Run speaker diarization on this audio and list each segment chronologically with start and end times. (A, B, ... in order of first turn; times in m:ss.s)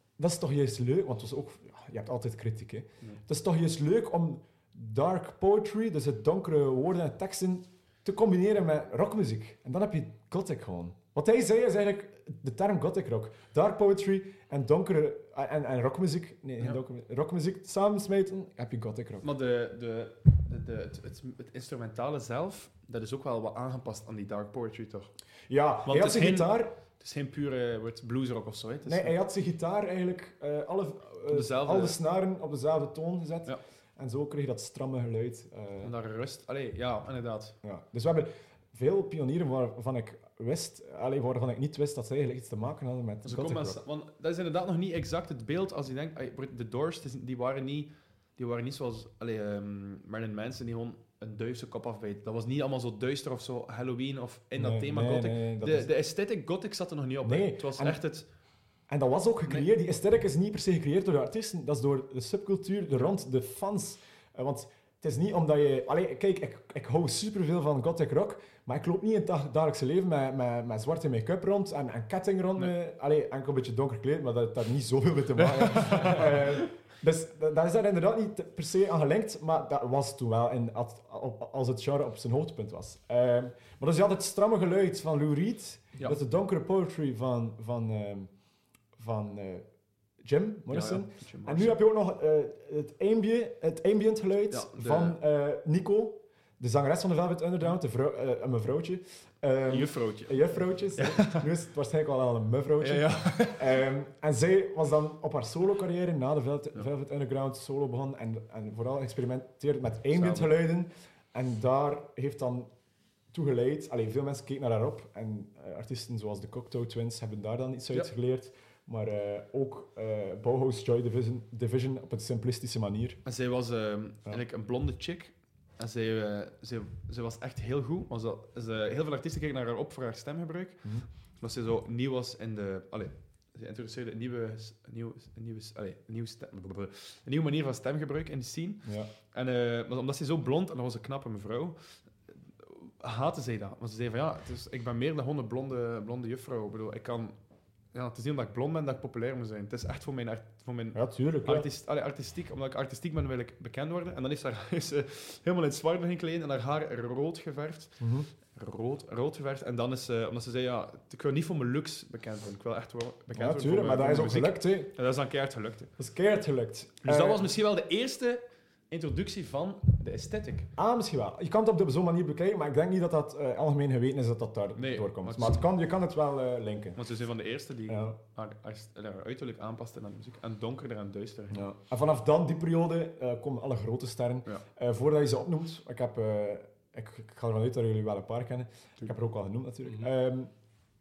0:00.2-0:19.3 A
0:19.2-0:25.1 B
0:25.5-0:26.7 A
0:25.8-0:29.1 B
0:28.8-0:35.9 A
0:31.3-0:32.0 B
0:35.8-0:37.6 B
0:37.6-0:43.8 A
0:43.2-0:58.2 B
0:54.6-0:55.9 A
0:57.2-0:58.0 A
0:58.9-1:28.3 A
1:15.6-1:16.2 B
1:29.0-1:29.6 A
1:30.2-1:52.7 A
1:30.7-1:31.8 B
1:34.5-1:35.2 B
1:39.7-1:40.4 B
1:41.0-1:41.4 B
1:42.8-1:43.8 B
1:50.1-1:50.5 B
1:53.3-2:03.2 A
2:03.2-2:10.8 B
2:11.4-2:21.8 B
2:18.8-2:19.1 A
2:22.6-2:27.3 B
2:27.9-2:38.0 B
2:30.9-2:31.7 A
2:38.0-2:38.3 A
2:38.5-2:45.9 B
2:43.3-2:44.9 A
2:46.0-2:47.5 A
2:47.0-2:50.7 B
2:50.8-2:57.0 A
2:54.7-2:55.6 B
2:57.0-3:01.6 B
2:57.9-2:58.2 A
3:01.5-3:10.5 A